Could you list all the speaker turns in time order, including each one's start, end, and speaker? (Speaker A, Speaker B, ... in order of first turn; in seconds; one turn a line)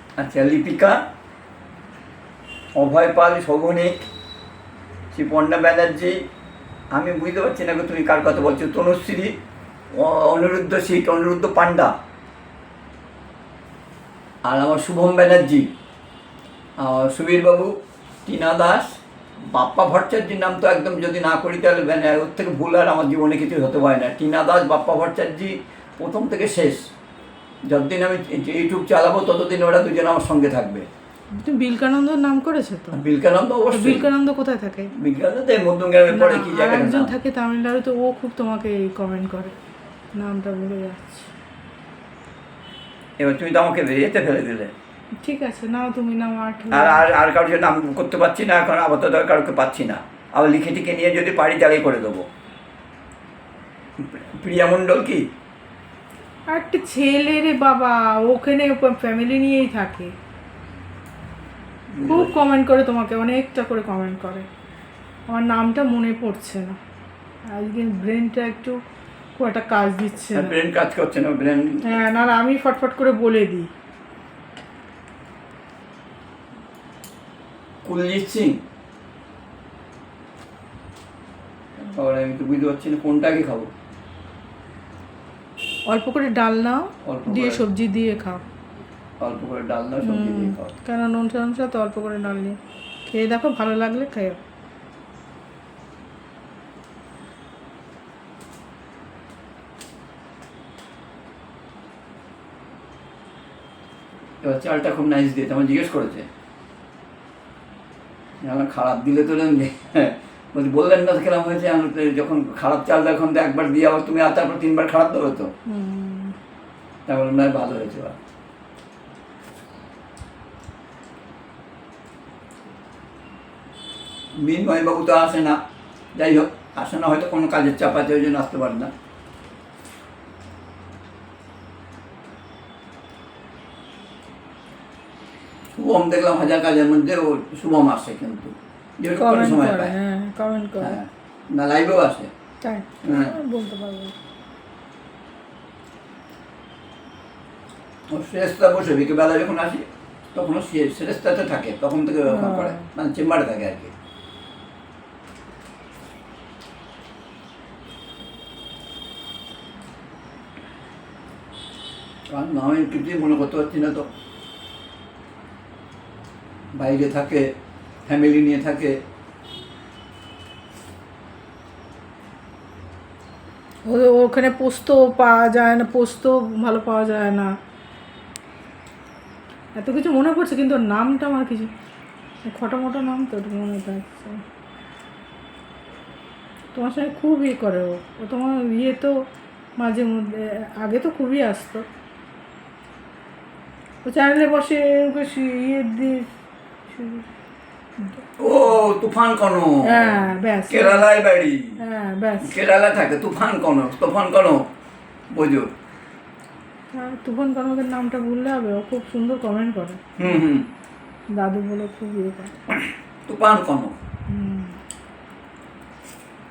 Speaker A: 0.2-1.0
Speaker A: 2.8-4.0
Speaker A: 5.1-6.2
Speaker A: 6.9-9.3
Speaker A: 9.9-11.9
Speaker A: 14.5-15.7
Speaker A: 16.8-26.9
Speaker A: 27.7-30.9
Speaker B: 31.4-33.0
Speaker A: 32.9-34.1
Speaker B: 33.7-34.9
Speaker A: 34.9-37.1
Speaker B: 36.1-39.5
Speaker B: 40.1-41.3
Speaker A: 43.2-44.7
Speaker B: 45.2-47.1
Speaker A: 46.7-52.3
Speaker A: 54.0-55.2
Speaker B: 56.5-60.1
Speaker A: 62.0-62.3
Speaker B: 62.1-64.5
Speaker B: 65.3-66.8
Speaker B: 67.5-68.8
Speaker B: 69.4-70.6
Speaker A: 70.3-72.0
Speaker B: 71.8-73.7
Speaker A: 77.8-78.6
Speaker A: 81.8-83.7
Speaker B: 85.9-88.4
Speaker A: 87.0-87.6
Speaker A: 89.2-90.7
Speaker B: 90.0-92.6
Speaker B: 93.1-94.4
Speaker A: 104.4-106.3
Speaker A: 108.4-115.5
Speaker B: 115.7-116.3
Speaker A: 117.1-118.2
Speaker A: 124.4-125.6
Speaker A: 126.2-128.9
Speaker A: 135.8-139.9
Speaker B: 139.1-141.0
Speaker A: 140.8-142.3
Speaker B: 142.6-144.2
Speaker A: 143.0-143.3
Speaker A: 148.1-153.9
Speaker B: 152.3-152.8
Speaker A: 162.3-164.1
Speaker A: 166.8-167.5
Speaker A: 168.1-169.0
Speaker B: 173.9-177.5
Speaker B: 179.8-181.7
Speaker B: 182.5-184.4
Speaker B: 186.7-189.2
Speaker B: 189.8-191.9
Speaker B: 194.1-196.3
Speaker B: 196.9-197.3
Speaker A: 198.4-201.8
Speaker B: 199.8-201.1
Speaker B: 201.8-202.6
Speaker A: 202.4-204.7
Speaker A: 205.3-205.7
Speaker B: 206.9-210.0
Speaker A: 210.2-210.7
Speaker B: 211.3-212.6
Speaker A: 212.7-213.9
Speaker B: 214.3-214.8